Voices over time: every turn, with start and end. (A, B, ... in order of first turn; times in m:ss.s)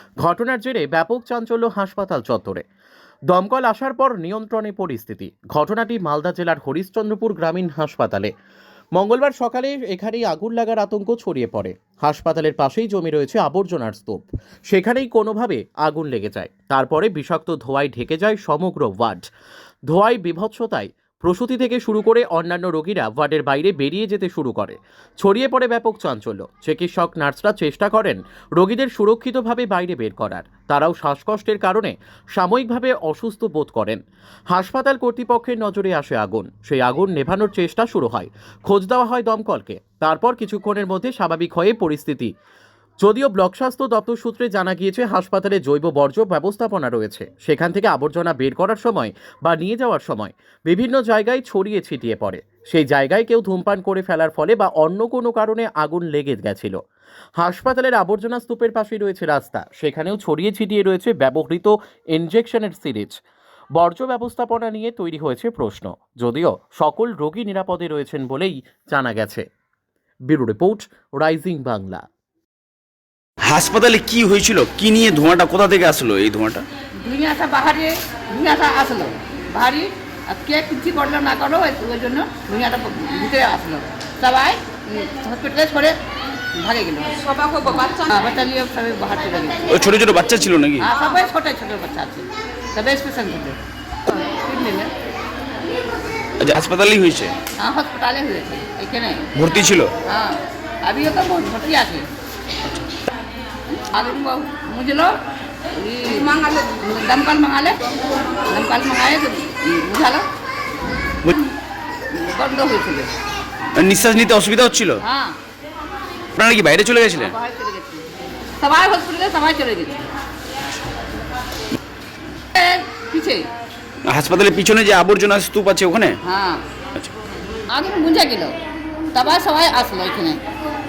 0:00.2-0:02.6 A
0:03.3-0:08.3 A
0:09.0-0:19.3 A
0:19.9-0:42.3 A
0:43.0-0:56.8 A
0:57.4-1:03.2 A
1:03.8-1:09.5 A
1:10.3-1:12.0 A
1:13.4-1:16.7 B
1:17.0-1:26.0 C
1:26.5-1:29.8 C
1:29.7-1:30.9 B
1:30.8-1:34.9 C
1:36.4-1:37.3 B
1:37.6-1:39.3 C
1:39.4-1:39.9 B
1:40.1-1:42.1 C
1:43.7-1:45.2 C
1:45.7-1:47.8 C
1:48.5-1:50.3 C
1:52.1-1:53.1 C
1:53.8-1:55.0 B
1:55.0-1:55.4 C
1:56.4-1:57.4 B
1:57.2-1:58.1 C
1:58.6-2:00.1 C
2:02.5-2:03.5 C
2:04.0-2:06.2 B
2:06.2-2:06.6 C
2:07.7-2:08.6 C
2:09.1-2:10.4 C